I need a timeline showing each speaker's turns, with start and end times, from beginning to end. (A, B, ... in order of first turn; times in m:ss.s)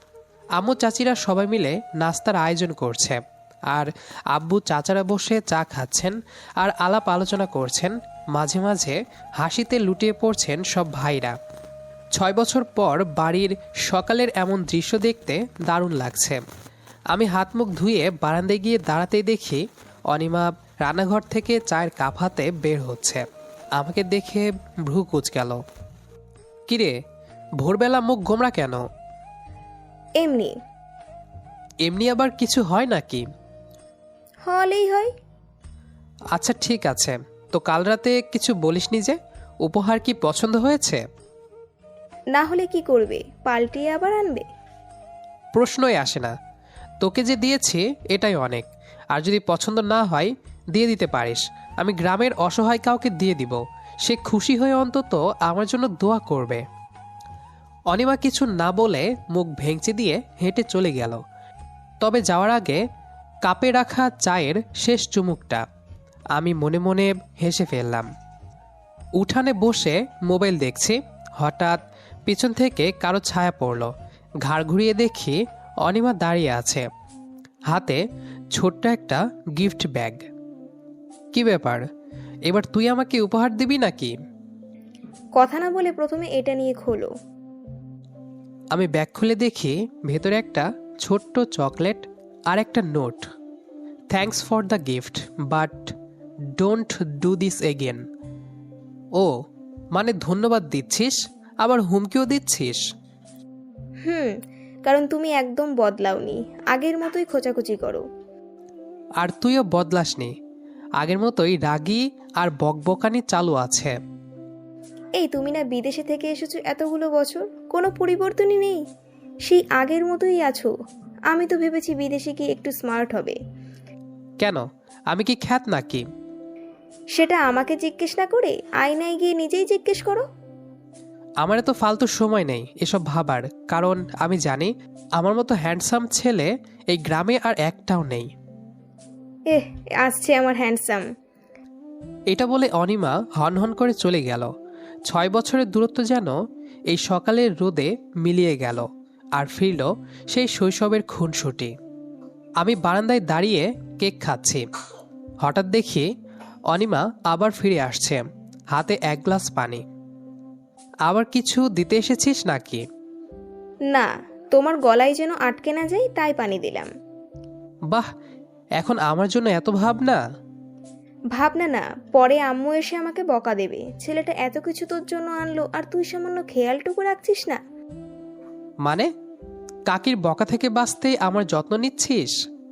0:00.6-0:11.4 A
0:12.2-0:16.4 A
0:17.1-0:23.2 A
0:23.8-0:25.6 A
0:26.7-0:27.0 A
0:27.6-0:28.8 A
0:30.2-0:30.6 B
0:31.8-0:33.2 A
0:34.4-0:35.1 B
0:36.3-0:41.0 A
0:42.3-0:44.4 B
0:45.5-0:46.3 A
0:47.0-0:56.6 A
0:57.9-1:01.2 A
1:02.0-1:02.8 A
1:03.4-1:05.6 A
1:06.3-1:08.1 A
1:09.2-1:13.9 A
1:14.4-1:16.9 A
1:17.7-1:18.0 A
1:18.5-1:20.2 A
1:21.3-1:21.8 A
1:22.5-1:24.1 A
1:25.4-1:27.1 B
1:28.7-1:33.3 A
1:34.1-1:35.9 A
1:36.6-1:38.0 A
1:39.9-1:42.8 A
1:44.0-1:48.0 B
1:49.2-1:50.3 A
1:51.0-1:54.0 A
1:55.2-1:58.8 B
1:59.4-2:00.7 B
2:01.3-2:03.4 B
2:04.4-2:06.0 A
2:07.1-2:10.2 B
2:11.4-2:18.3 A
2:19.5-2:21.0 B
2:22.3-2:24.5 A
2:25.1-2:26.4 A
2:26.9-2:31.7 A
2:32.6-2:34.6 A
2:35.4-2:36.1 A
2:36.7-2:39.8 A
2:41.0-2:42.8 A
2:43.9-2:46.9 B
2:48.8-2:50.2 A
2:51.3-2:57.6 B
2:58.8-2:59.1 A
2:59.9-3:02.4 A